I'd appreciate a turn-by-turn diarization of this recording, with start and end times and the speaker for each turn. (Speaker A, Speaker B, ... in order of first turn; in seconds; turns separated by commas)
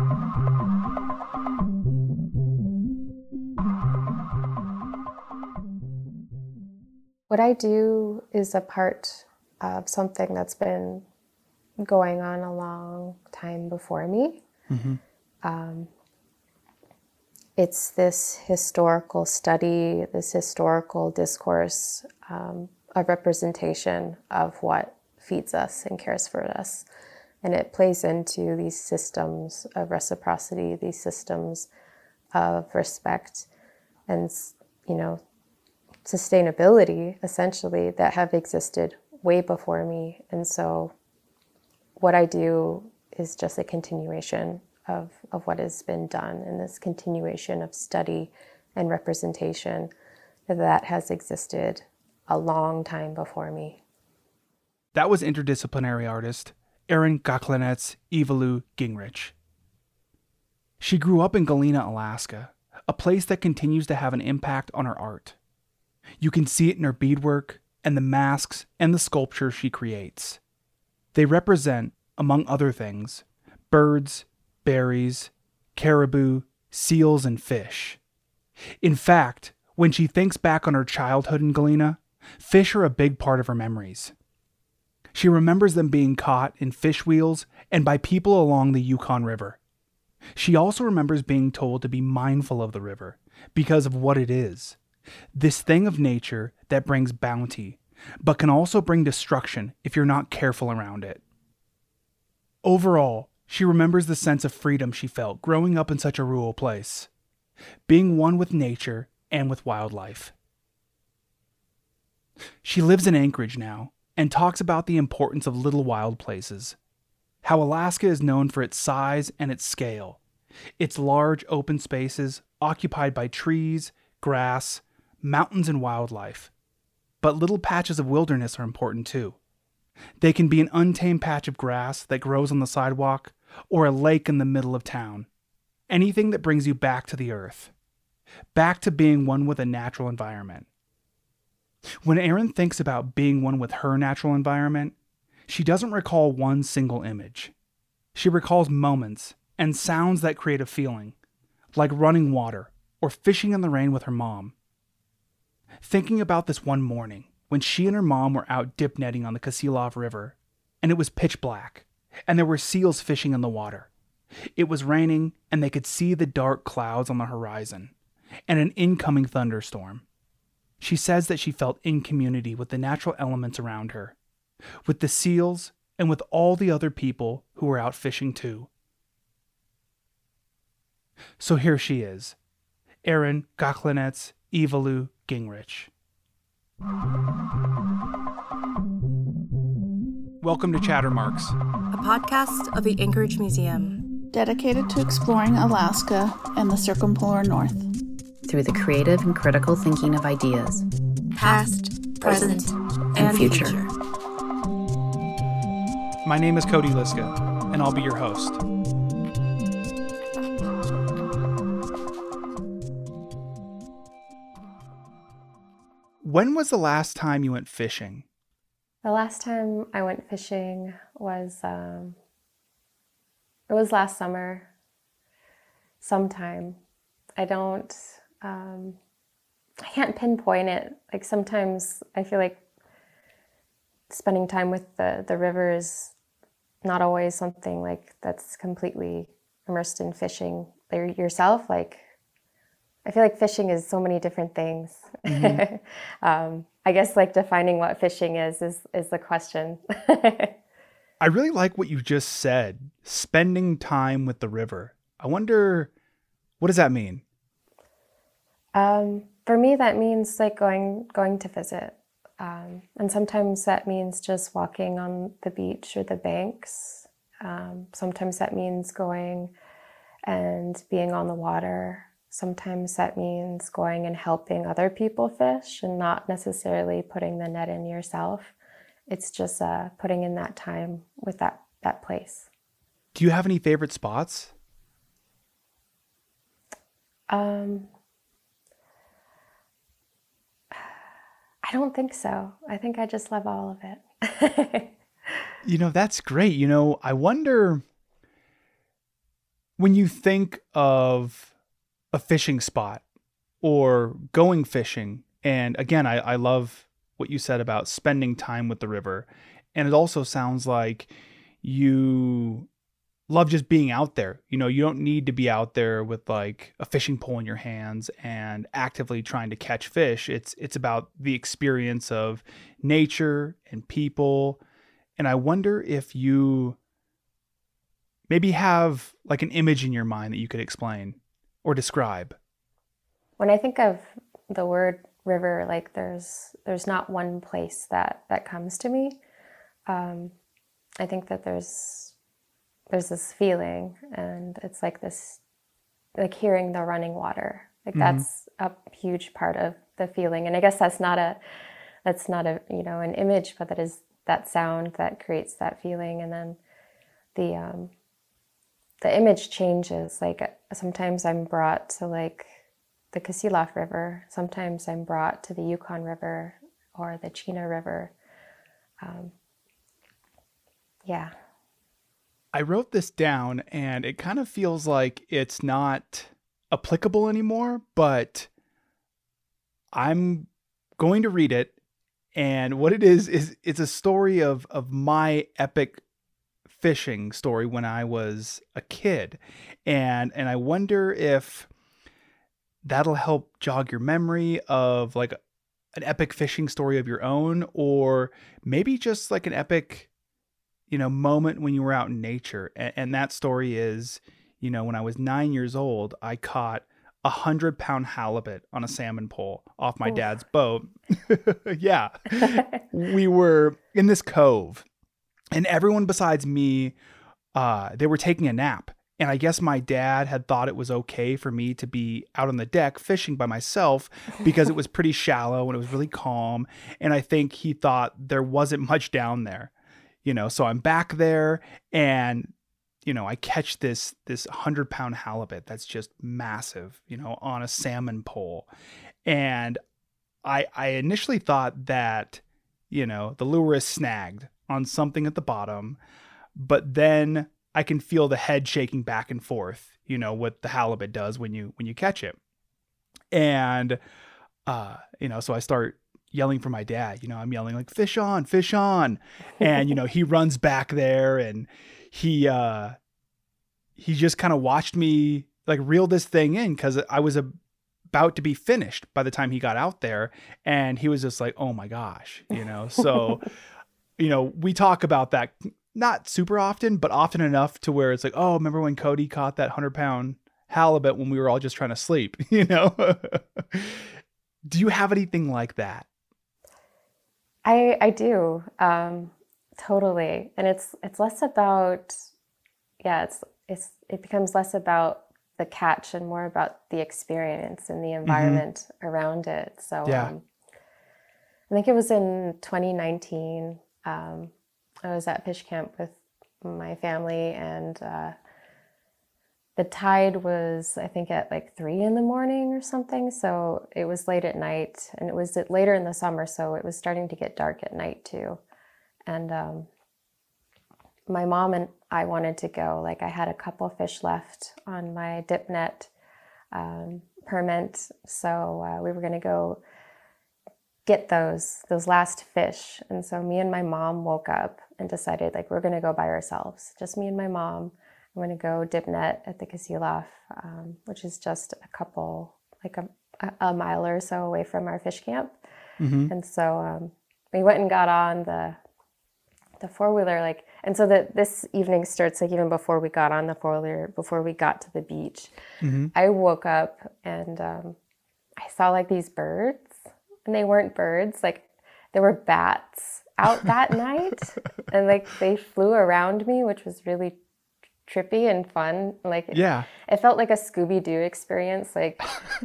Speaker A: 0.5-1.4, Speaker B: 7.3-11.0, Speaker B: 11.8-14.4, Speaker C: 14.7-15.0, Speaker B: 15.4-15.9, Speaker B: 17.6-26.9, Speaker B: 27.4-31.7, Speaker B: 32.3-33.5, Speaker B: 34.1-35.2, Speaker B: 36.0-40.9, Speaker B: 42.0-49.9, Speaker B: 50.5-53.8, Speaker C: 54.9-59.3, Speaker C: 60.8-65.4, Speaker C: 66.2-70.4, Speaker C: 71.1-78.0, Speaker C: 78.8-84.1, Speaker C: 85.1-89.6, Speaker C: 90.3-94.8, Speaker C: 95.3-101.2, Speaker C: 102.6-107.1, Speaker C: 107.9-110.3, Speaker C: 112.6-116.8, Speaker C: 117.4-120.2, Speaker C: 120.8-126.5, Speaker C: 127.2-129.4, Speaker C: 130.2-135.3, Speaker C: 135.9-137.7, Speaker C: 138.5-140.7, Speaker C: 141.9-144.9, Speaker C: 145.5-147.5, Speaker C: 148.1-151.1, Speaker C: 151.7-154.5, Speaker C: 155.8-163.9, Speaker C: 164.6-167.9, Speaker C: 168.5-170.0, Speaker C: 170.8-174.2, Speaker C: 174.8-178.7, Speaker C: 181.4-182.3, Speaker C: 183.0-185.9, Speaker C: 190.4-191.6, Speaker D: 191.9-194.0, Speaker E: 194.3-197.8, Speaker A: 198.4-200.8, Speaker D: 201.3-203.9, Speaker A: 202.2-203.8, Speaker C: 206.2-208.6, Speaker C: 216.2-218.2, Speaker B: 219.0-222.2, Speaker B: 223.7-224.7, Speaker B: 226.0-226.8, Speaker B: 227.4-229.0, Speaker B: 229.8-232.6, Speaker B: 234.1-236.1, Speaker B: 236.8-242.0, Speaker B: 243.0-250.5, Speaker C: 245.3-245.6, Speaker C: 251.2-255.9, Speaker C: 256.6-257.2, Speaker B: 258.7-269.5, Speaker B: 270.2-278.5, Speaker B: 279.1-282.5, Speaker C: 283.1-284.5, Speaker B: 287.3-287.9, Speaker B: 291.6-295.5, Speaker C: 295.6-297.8, Speaker C: 299.8-301.5, Speaker C: 302.1-303.0, Speaker C: 303.6-311.1, Speaker C: 311.6-312.7, Speaker C: 313.3-324.6, Speaker C: 325.2-326.8, Speaker C: 328.3-332.4, Speaker B: 333.4-339.2, Speaker B: 339.9-340.3, Speaker B: 341.0-342.1, Speaker B: 342.9-345.4, Speaker B: 346.1-351.4, Speaker C: 347.9-348.2, Speaker B: 352.0-356.6, Speaker B: 357.3-357.9, Speaker B: 359.0-362.5, Speaker B: 363.1-368.1, Speaker B: 369.0-369.3, Speaker B: 371.0-371.3, Speaker C: 372.5-378.5, Speaker C: 379.9-381.7, Speaker C: 382.3-386.0, Speaker C: 386.7-391.7, Speaker C: 392.8-395.4, Speaker C: 395.9-400.1, Speaker C: 400.9-414.9, Speaker C: 415.5-416.9, Speaker C: 417.5-429.7, Speaker C: 430.2-432.5, Speaker C: 433.0-438.7, Speaker C: 439.2-439.8, Speaker C: 440.4-446.0, Speaker C: 446.6-452.4, Speaker C: 453.3-454.0, Speaker C: 454.6-463.0, Speaker C: 463.9-467.5, Speaker C: 468.1-473.5, Speaker C: 474.2-484.1, Speaker C: 484.6-486.1, Speaker B: 487.6-492.2, Speaker B: 493.0-500.4, Speaker C: 498.2-498.6, Speaker C: 500.0-500.3, Speaker B: 501.7-504.5, Speaker B: 505.0-508.3, Speaker B: 509.8-518.6, Speaker B: 519.3-519.9, Speaker B: 521.3-526.1, Speaker B: 526.7-529.8, Speaker B: 531.0-545.6, Speaker C: 546.0-546.3, Speaker B: 546.3-548.8, Speaker B: 549.8-555.5, Speaker C: 555.8-556.1, Speaker B: 556.1-558.0, Speaker B: 558.6-567.4, Speaker B: 568.0-572.4, Speaker C: 569.5-569.9